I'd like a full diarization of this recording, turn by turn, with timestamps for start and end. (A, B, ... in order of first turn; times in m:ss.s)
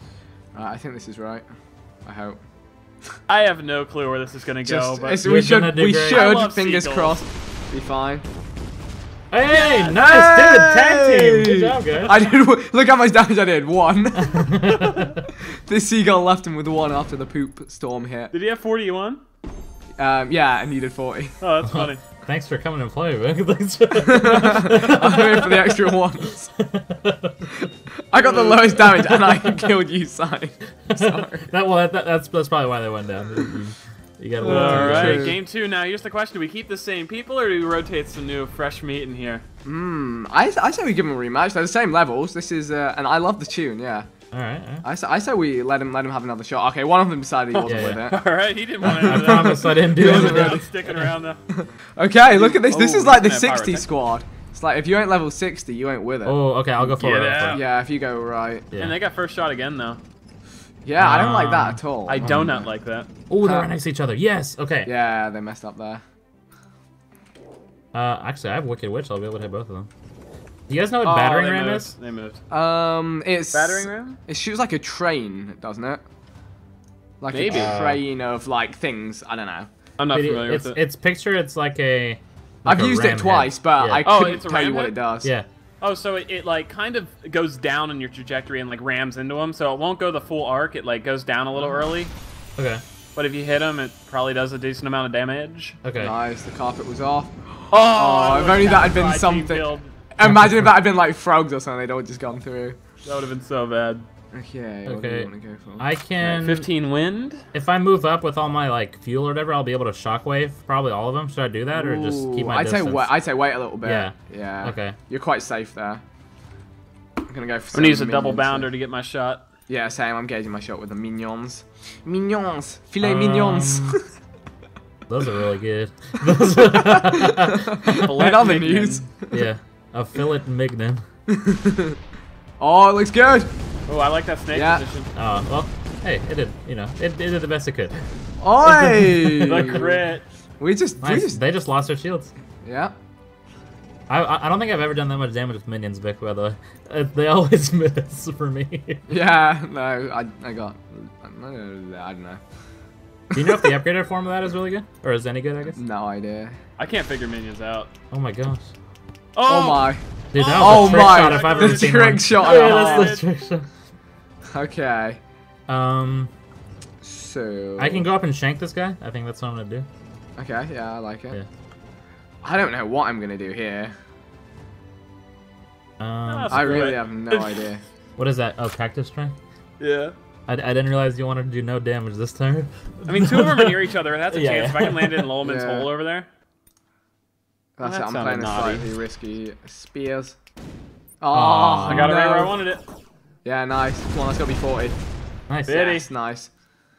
0:00.5-0:01.4 A
0:02.0-0:02.4 A
0:03.3-0:05.2 B
0:04.6-0:08.2 A
0:05.2-0:06.3 C
0:06.0-0:07.2 B
0:09.3-0:12.1 C
0:09.5-0:14.5 A
0:09.6-0:09.9 B
0:11.9-0:12.2 B
0:14.2-0:15.2 C
0:14.7-0:15.1 B
0:15.3-0:18.3 A
0:18.3-0:19.2 B
0:20.0-0:21.3 A
0:21.4-0:22.0 B
0:21.7-0:27.5 C
0:24.0-0:26.5 A
0:28.1-0:31.5 A
0:28.2-0:28.7 B
0:28.8-0:29.7 C
0:30.9-0:35.3 C
0:34.4-0:35.4 A
0:34.4-0:39.4 B
0:39.6-0:44.1 A
0:44.3-0:44.8 C
0:44.8-0:48.2 A
0:47.5-0:51.4 B
0:47.6-0:48.0 C
0:48.8-0:51.1 C
0:48.8-0:50.7 A
0:51.5-0:56.4 A
0:52.3-0:53.8 B
0:56.2-0:57.6 C
0:56.8-0:57.6 B
0:57.5-0:58.7 A
0:58.8-1:00.0 B
1:00.8-1:02.7 A
1:01.0-1:01.8 C
1:02.1-1:03.1 B
1:03.3-1:04.9 C
1:03.4-1:03.7 A
1:04.8-1:06.0 A
1:07.9-1:09.9 C
1:10.7-1:11.9 C
1:11.0-1:12.4 B
1:12.5-1:16.0 A
1:13.5-1:14.2 B
1:17.2-1:19.7 A
1:17.3-1:17.7 B
1:17.5-1:18.0 C
1:20.0-1:20.8 B
1:20.1-1:24.1 C
1:22.6-1:25.3 A
1:24.0-1:25.0 B
1:25.8-1:32.1 B
1:32.6-1:32.8 C
1:33.2-1:35.8 B
1:35.8-1:36.1 C
1:36.0-1:42.8 A
1:37.7-1:39.9 B
1:40.2-1:40.7 C
1:43.0-1:44.0 B
1:44.3-1:46.4 A
1:44.8-1:46.7 C
1:46.2-1:47.4 B
1:47.5-1:53.1 C
1:51.7-1:56.0 A
1:53.8-1:55.0 C
1:57.3-1:58.7 A
1:57.7-1:59.4 B
1:59.7-2:04.0 A
2:03.0-2:04.0 C
2:05.1-2:07.8 C
2:06.6-2:09.5 A
2:07.9-2:09.0 B
2:09.3-2:11.0 C
2:11.3-2:12.0 A
2:12.6-2:13.5 A
2:13.9-2:15.1 B
2:14.5-2:14.8 A
2:15.2-2:17.9 C
2:18.4-2:20.0 A
2:18.6-2:19.8 C
2:19.4-2:20.2 B
2:20.6-2:21.4 A
2:21.0-2:22.3 C
2:22.6-2:22.9 A
2:24.1-2:29.0 C
2:29.1-2:32.4 A
2:33.3-2:33.7 A
2:33.3-2:35.8 C
2:35.8-2:36.6 A
2:36.8-2:37.9 B
2:38.1-2:38.7 C
2:39.4-2:43.2 B
2:39.5-2:40.0 A
2:40.3-2:43.7 C
2:40.6-2:43.1 A
2:44.5-2:45.2 A
2:45.7-2:46.3 C
2:47.0-2:48.1 A
2:47.8-2:49.8 C
2:50.4-2:51.4 A
2:52.4-2:53.9 A
2:56.0-2:57.0 C
2:56.3-2:57.6 B
2:56.5-2:57.8 A
2:58.2-2:59.3 C
2:59.8-3:00.1 B
3:00.5-3:05.3 C
3:03.0-3:06.3 B
3:05.4-3:05.9 A
3:07.8-3:10.4 A
3:07.8-3:08.9 B
3:11.2-3:12.6 A
3:11.3-3:12.1 C
3:11.8-3:12.8 B
3:13.4-3:15.0 A
3:15.5-3:15.8 C
3:15.7-3:16.0 B
3:15.7-3:16.5 A